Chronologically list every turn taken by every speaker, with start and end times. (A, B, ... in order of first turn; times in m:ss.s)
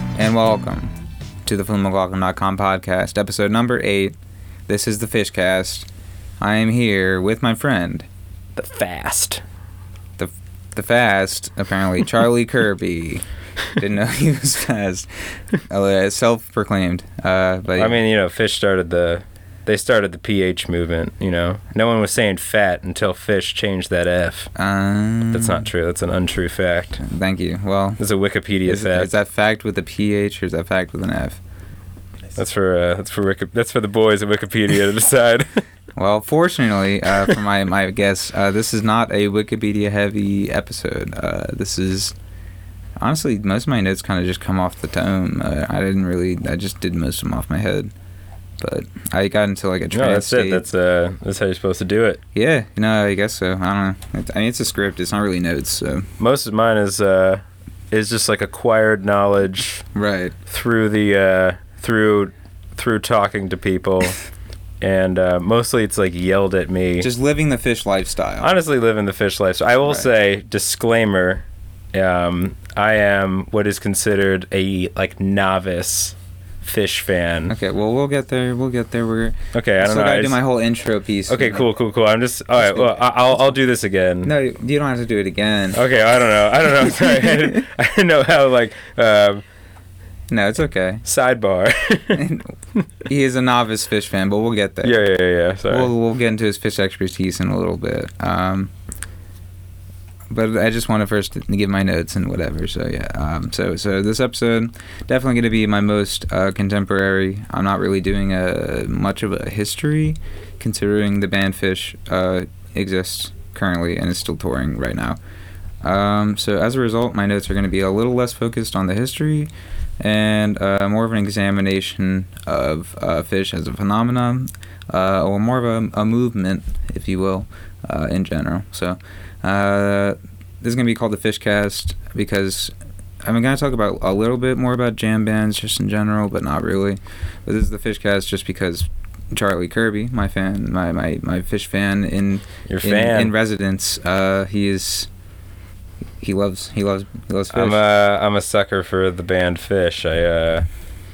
0:00.1-0:04.1 A
0:04.7-0:05.9 A
0:06.4-0:08.1 A
0:08.6-0:09.4 B
0:10.2-0:13.2 A
0:13.8-0:18.0 A
0:17.8-0:24.5 B
0:24.5-0:25.7 A
0:25.3-0:27.0 B
0:27.0-0:28.0 A
0:28.0-0:29.1 B
0:28.6-0:31.4 A
0:32.4-0:35.6 B
0:36.0-0:42.1 A
0:43.0-0:47.9 A
0:48.6-0:50.6 A
0:49.9-0:52.2 B
0:52.3-0:56.1 A
0:56.2-0:59.8 B
0:59.9-1:00.3 A
1:00.5-1:04.2 B
1:04.8-1:07.1 B
1:07.0-1:08.5 A
1:08.4-1:17.5 B
1:17.5-1:21.7 A
1:19.5-1:20.4 B
1:21.3-1:24.3 B
1:22.6-1:23.5 A
1:24.2-1:25.8 A
1:25.7-1:29.4 B
1:30.3-1:31.0 A
1:31.0-1:32.3 B
1:32.1-1:32.5 A
1:33.0-1:35.0 A
1:34.8-1:35.9 B
1:35.7-1:38.7 A
1:40.3-1:55.2 A
1:55.8-2:25.1 A
2:22.7-2:23.3 B
2:26.2-2:27.8 A
2:27.5-2:30.6 B